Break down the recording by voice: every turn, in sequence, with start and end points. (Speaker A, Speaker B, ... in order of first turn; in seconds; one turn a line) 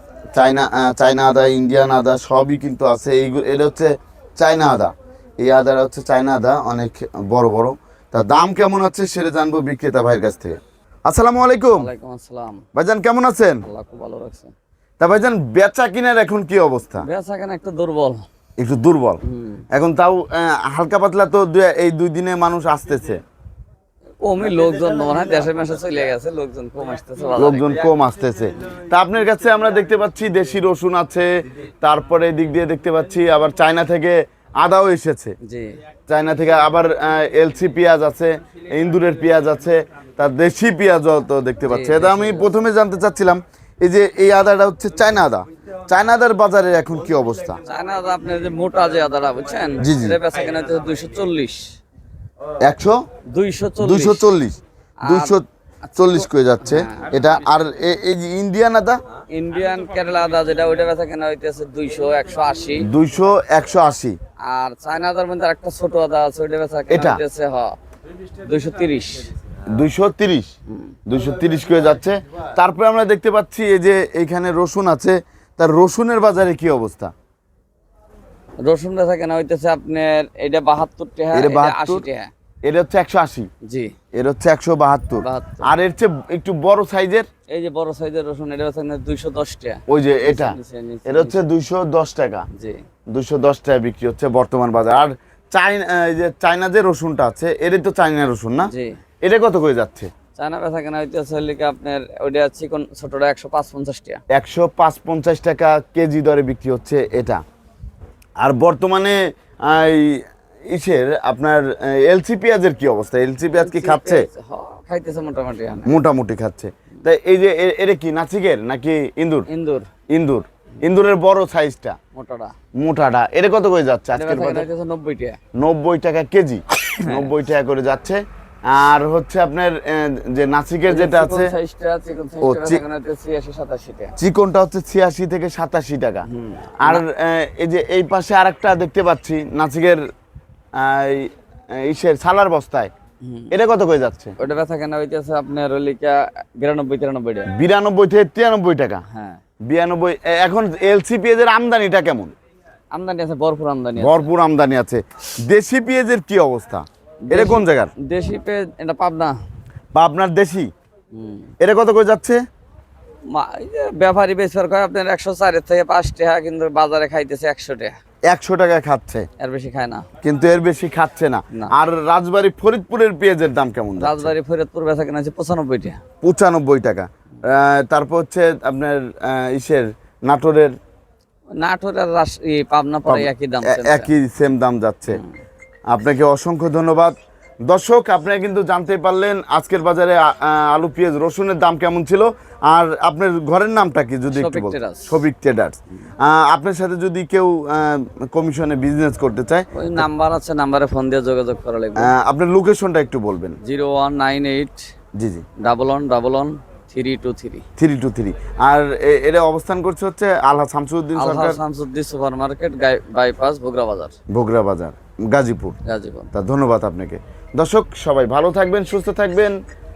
Speaker A: 0.3-11.9
Speaker B: 11.8-12.6
Speaker A: 12.7-13.6
Speaker B: 13.7-14.5
Speaker A: 15.0-17.1
Speaker B: 17.0-18.2
Speaker A: 18.6-23.2
Speaker B: 19.2-19.6
Speaker B: 24.2-27.9
Speaker A: 27.4-31.3
Speaker A: 31.8-35.4
Speaker B: 35.4-35.8
Speaker A: 36.1-47.6
Speaker B: 41.6-42.5
Speaker B: 47.6-51.8
Speaker A: 49.8-50.2
Speaker A: 52.6-53.0
Speaker B: 53.3-54.3
Speaker A: 53.8-55.4
Speaker B: 55.0-55.4
Speaker B: 55.9-57.3
Speaker A: 56.0-59.0
Speaker B: 59.3-62.9
Speaker A: 62.8-64.2
Speaker B: 64.4-67.7
Speaker A: 66.9-67.2
Speaker B: 68.4-69.3
Speaker A: 69.6-70.5
Speaker A: 71.1-77.1
Speaker B: 78.6-82.3
Speaker A: 81.3-82.0
Speaker A: 82.6-83.5
Speaker B: 83.6-83.9
Speaker A: 84.1-87.3
Speaker B: 85.2-85.7
Speaker B: 87.5-91.4
Speaker A: 89.9-92.5
Speaker B: 92.5-92.8
Speaker A: 93.1-98.7
Speaker B: 98.6-99.0
Speaker A: 99.2-100.1
Speaker B: 100.3-104.2
Speaker A: 104.3-107.4
Speaker A: 108.4-114.2
Speaker B: 113.5-115.9
Speaker A: 115.8-119.5
Speaker B: 119.5-119.9
Speaker A: 120.1-122.0
Speaker B: 122.1-122.5
Speaker A: 122.8-124.7
Speaker B: 124.1-125.4
Speaker A: 125.5-131.5
Speaker B: 127.0-127.3
Speaker B: 130.9-134.1
Speaker A: 132.4-132.8
Speaker A: 134.2-136.3
Speaker B: 136.3-137.0
Speaker A: 136.8-140.0
Speaker A: 140.8-142.9
Speaker B: 143.2-143.5
Speaker A: 143.5-144.3
Speaker B: 144.4-147.5
Speaker A: 147.5-149.0
Speaker B: 149.1-149.4
Speaker A: 149.7-152.3
Speaker B: 152.9-154.3
Speaker A: 153.9-157.9
Speaker B: 157.3-159.3
Speaker A: 159.9-160.7
Speaker B: 161.1-161.5
Speaker A: 161.6-162.4
Speaker B: 163.3-168.0
Speaker A: 168.3-169.3
Speaker B: 169.4-170.1
Speaker A: 170.2-174.3
Speaker B: 174.0-176.0
Speaker A: 176.2-180.7
Speaker B: 181.5-184.1
Speaker A: 183.1-185.2
Speaker A: 185.9-187.1
Speaker A: 187.7-200.0
Speaker B: 194.3-195.2
Speaker B: 199.7-202.1
Speaker A: 202.0-203.6
Speaker B: 203.6-204.8
Speaker A: 205.2-205.4
Speaker B: 205.6-207.6
Speaker A: 207.8-211.6
Speaker B: 211.2-214.2
Speaker A: 214.3-215.8
Speaker B: 215.8-216.3
Speaker A: 216.3-219.6